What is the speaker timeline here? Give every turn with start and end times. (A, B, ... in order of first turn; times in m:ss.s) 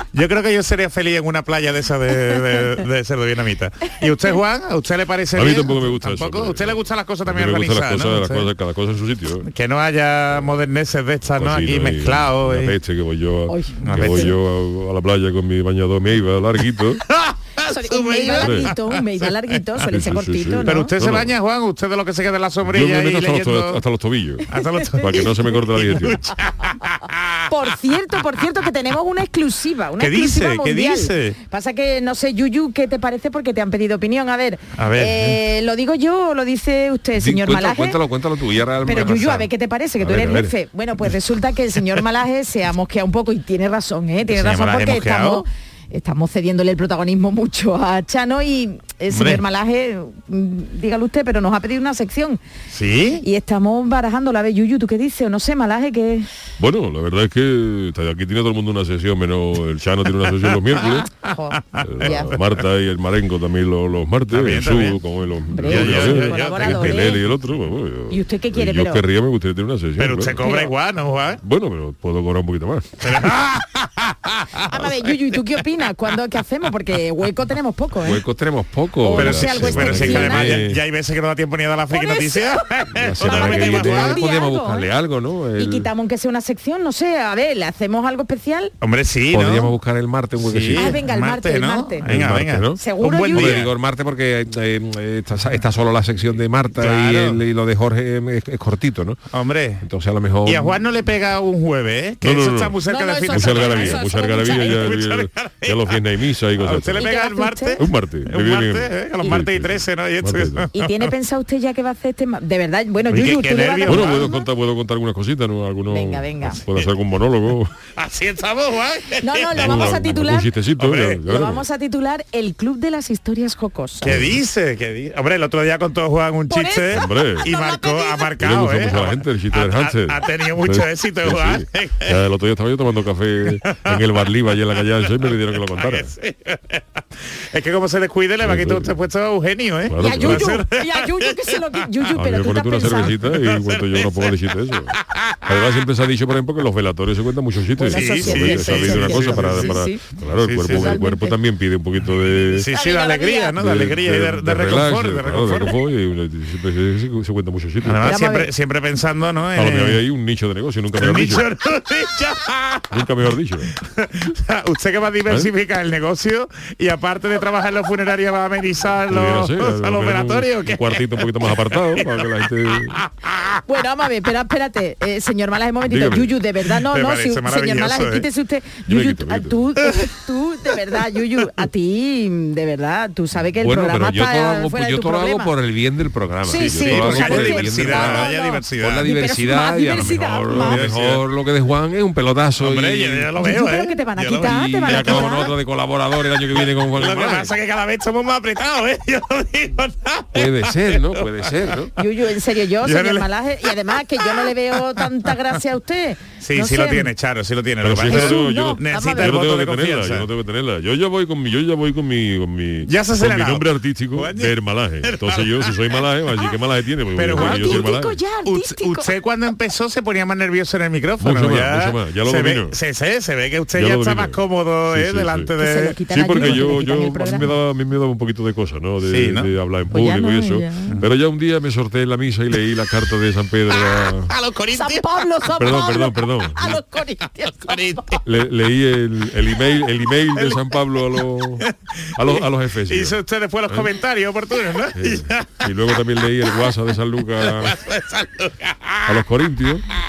0:00.1-0:08.5 A
0:05.4-0:09.5 B
0:09.4-0:12.8 A
0:10.3-0:10.6 B
0:11.3-0:17.0 B
0:13.5-0:14.3 C
0:13.9-0:14.4 A
0:17.1-0:19.3 A
0:17.6-0:20.9 C
0:18.4-0:18.7 B
0:19.8-0:21.4 B
0:20.6-0:23.8 A
0:22.6-0:26.2 B
0:24.5-0:27.4 A
0:27.5-0:38.0 C
0:30.0-0:31.4 A
0:34.8-0:35.4 A
0:37.2-0:40.5 D
0:38.8-0:52.4 C
0:44.3-0:45.4 A
0:49.1-0:49.4 A
0:52.7-0:53.2 A
0:53.2-0:56.3 C
0:56.6-1:01.1 B
1:00.5-1:01.0 A
1:01.2-1:02.3 C
1:01.7-1:02.6 A
1:01.8-1:10.5 B
1:04.3-1:05.0 A
1:05.5-1:07.2 C
1:05.6-1:07.2 A
1:08.1-1:09.0 C
1:10.0-1:11.4 A
1:10.4-1:10.7 C
1:11.4-1:12.9 B
1:13.0-1:15.0 A
1:14.7-1:18.2 C
1:18.0-1:20.8 D
1:19.0-1:20.6 C
1:19.1-1:24.2 A
1:19.2-1:20.7 B
1:21.9-1:22.6 C
1:22.9-1:25.9 D
1:23.2-1:24.9 C
1:25.6-1:28.7 C
1:28.8-1:29.7 A
1:29.3-1:31.0 D
1:30.4-1:33.7 A
1:30.8-1:32.1 C
1:32.1-1:32.8 D
1:32.8-1:33.6 C
1:33.3-1:39.2 D
1:36.8-1:37.4 A
1:39.3-1:39.8 A
1:39.8-1:40.8 D
1:40.4-1:46.0 A
1:42.2-1:42.8 B
1:42.9-1:45.0 C
1:43.3-1:47.1 B
1:46.5-1:51.1 A
1:47.0-1:47.8 C
1:47.8-1:50.7 B
1:50.7-1:54.4 C
1:53.1-1:54.4 A
1:53.9-1:57.7 B
1:55.9-1:56.6 C
1:56.5-1:56.9 A
1:57.9-2:00.1 A
1:59.2-2:00.6 C
1:59.5-2:01.6 B
2:00.8-2:01.5 A
2:01.2-2:04.2 C
2:04.0-2:12.2 A
2:04.1-2:04.4 B
2:06.5-2:08.4 C
2:06.9-2:07.5 B
2:08.4-2:16.1 B
2:13.4-2:16.8 A
2:17.5-2:21.7 A
2:18.4-2:19.0 B
2:19.9-2:20.6 B
2:20.0-2:23.2 C
2:22.2-2:24.9 B
2:22.9-2:24.4 A
2:25.0-2:25.8 A
2:25.5-2:32.7 B
2:27.8-2:30.0 C
2:27.8-2:31.0 A
2:30.7-2:31.4 C
2:32.5-2:35.8 A
2:32.7-2:33.6 C
2:33.6-2:38.2 B
2:37.8-2:40.0 A
2:38.0-2:38.5 C
2:39.6-2:41.5 B
2:41.0-2:43.1 A
2:42.9-2:43.7 B
2:43.8-2:53.6 A
2:49.1-2:53.0 B
2:53.7-3:05.5 C
2:55.9-2:56.4 B
2:56.8-2:58.3 A
2:58.9-2:59.6 B
3:03.6-3:13.3 D
3:06.4-3:10.9 C
3:06.6-3:09.1 A
3:06.7-3:07.3 B
3:10.2-3:11.2 A
3:12.6-3:15.5 A
3:13.4-3:15.5 C
3:14.4-3:17.5 D
3:16.5-3:21.7 A
3:20.3-3:21.9 D
3:22.0-3:27.1 C
3:22.8-3:24.5 A
3:26.4-3:30.3 A
3:27.8-3:38.2 B
3:28.1-3:29.4 C
3:32.9-3:36.0 A
3:37.2-3:37.9 A
3:37.3-3:39.1 C
3:38.5-3:46.8 A
3:41.2-3:42.8 B
3:43.7-3:45.5 B
3:45.6-3:47.5 C
3:46.1-3:54.3 B
3:49.0-3:49.5 A
3:49.9-3:51.0 C
3:53.7-3:55.1 A
3:54.7-3:58.2 C
3:55.6-3:56.8 B
3:57.6-3:58.2 A
3:58.2-4:01.7 B
4:00.4-4:00.7 A
4:01.6-4:06.7 A
4:02.2-4:03.2 B
4:02.6-4:03.0 D
4:05.0-4:07.8 B
4:07.4-4:09.2 A
4:09.1-4:09.8 B